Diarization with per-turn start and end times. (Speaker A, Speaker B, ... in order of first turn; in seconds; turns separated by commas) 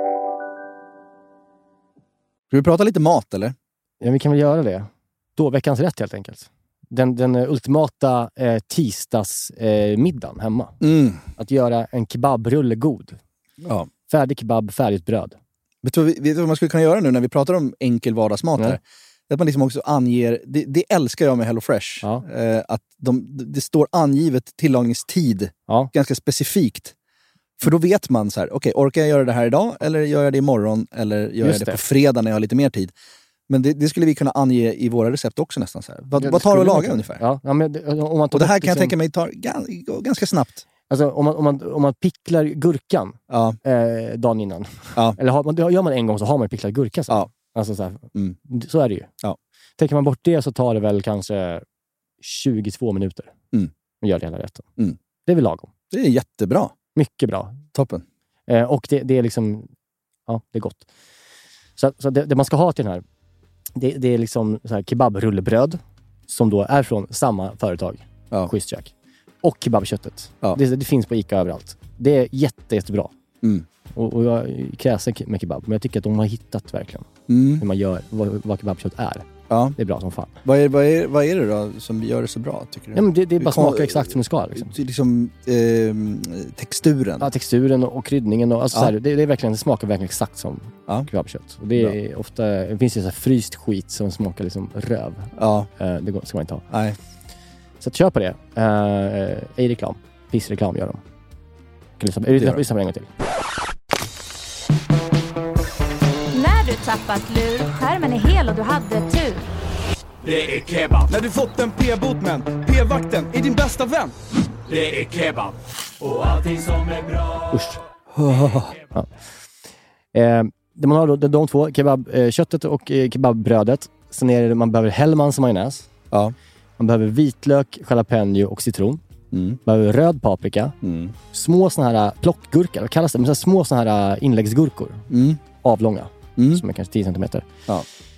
Speaker A: 2.5-3.5, Speaker B: 4.0-10.8, Speaker A: 10.8-11.2, Speaker B: 11.4-13.2, Speaker A: 13.6-13.9, Speaker B: 14.1-15.4, Speaker A: 15.8-26.9, Speaker A: 27.6-32.9, Speaker B: 31.4-31.8, Speaker A: 33.5-37.2, Speaker B: 36.2-38.9, Speaker A: 38.3-40.6, Speaker B: 40.9-49.1, Speaker A: 43.3-43.6, Speaker B: 49.8-51.6, Speaker B: 52.2-53.3, Speaker B: 54.0-54.7, Speaker B: 55.3-55.7, Speaker A: 55.9-56.8, Speaker B: 57.0-57.6, Speaker A: 57.7-58.0, Speaker B: 58.5-59.7, Speaker B: 60.3-60.9, Speaker B: 61.8-63.0, Speaker B: 63.8-68.9, Speaker B: 69.4-73.1, Speaker B: 73.9-80.3, Speaker A: 77.3-77.7, Speaker A: 79.5-79.8, Speaker A: 80.5-87.3, Speaker B: 82.9-84.7, Speaker B: 87.2-96.7, Speaker A: 95.4-95.7, Speaker A: 96.7-97.0, Speaker B: 97.8-101.0, Speaker B: 102.0-103.1, Speaker C: 106.3-109.5, Speaker D: 110.2-111.0, Speaker E: 111.0-114.1, Speaker D: 114.7-115.5, Speaker D: 116.0-117.4, Speaker A: 118.1-118.8, Speaker B: 120.1-125.9, Speaker B: 126.8-129.0, Speaker A: 129.3-129.6, Speaker B: 129.7-130.8, Speaker A: 130.8-131.1, Speaker B: 131.3-135.1, Speaker A: 135.1-135.4, Speaker B: 135.6-137.5, Speaker A: 136.4-136.6